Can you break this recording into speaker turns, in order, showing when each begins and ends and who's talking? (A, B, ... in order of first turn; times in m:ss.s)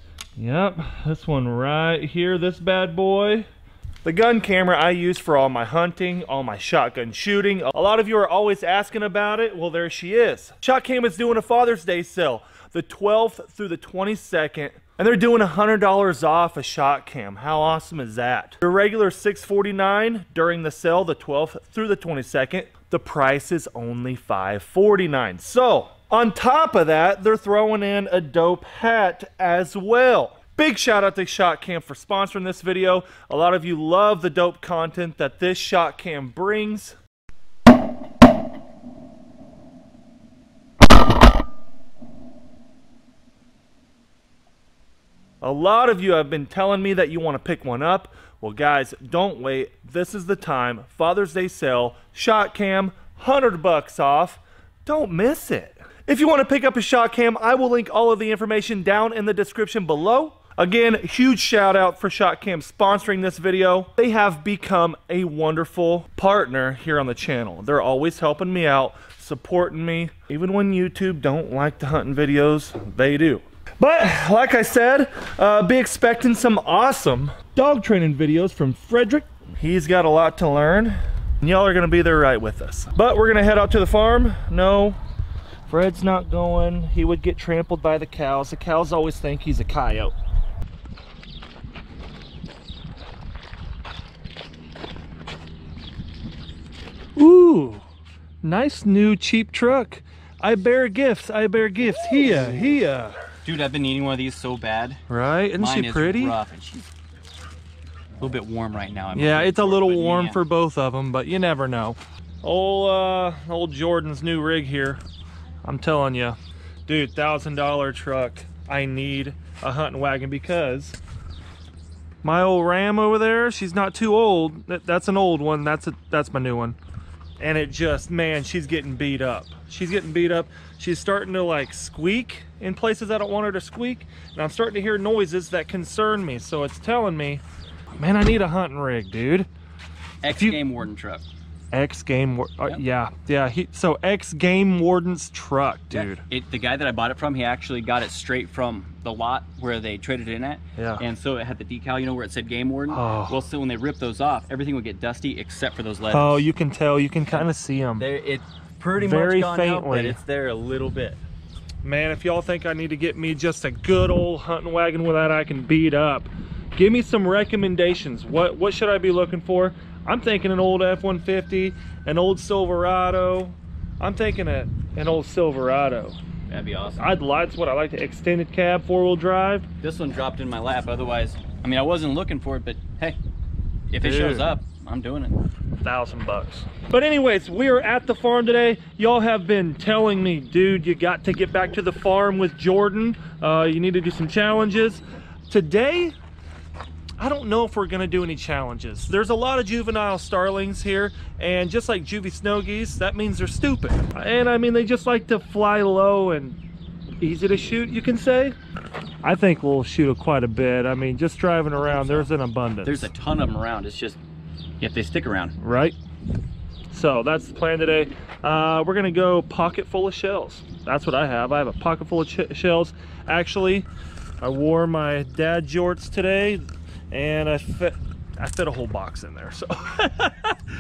0:00.4-0:03.5 A
0:04.0-0:37.0 A
0:45.4-1:25.0 A
1:25.7-1:30.2 A
1:37.2-1:37.8 A
1:38.4-1:43.2 A
1:43.4-1:45.0 B
1:45.1-1:46.4 A
1:45.6-1:46.9 B
1:48.2-1:50.4 B
1:49.1-1:55.0 A
1:55.6-2:01.0 A
2:02.2-2:06.8 A
2:07.4-2:17.4 A
2:18.0-2:19.5 A
2:20.2-2:21.2 B
2:20.3-2:20.6 A
2:21.7-2:26.2 A
2:25.9-2:36.5 B
2:30.8-2:31.0 A
2:32.9-2:33.4 A
2:36.1-2:38.1 A
2:37.3-2:41.2 B
2:39.0-2:40.2 A
2:41.8-2:56.2 A
2:56.5-2:57.1 B
2:57.0-2:59.7 A
2:59.8-3:03.2 B
3:03.9-3:05.4 B
3:04.0-3:04.5 A
3:05.8-3:16.1 A
3:17.2-3:26.6 A
3:27.2-3:28.6 A
3:29.2-3:33.1 A
3:31.9-3:32.3 B
3:32.8-3:34.2 B
3:34.8-3:35.6 B
3:35.6-3:36.0 A
3:36.9-3:43.9 A
3:44.4-3:50.6 A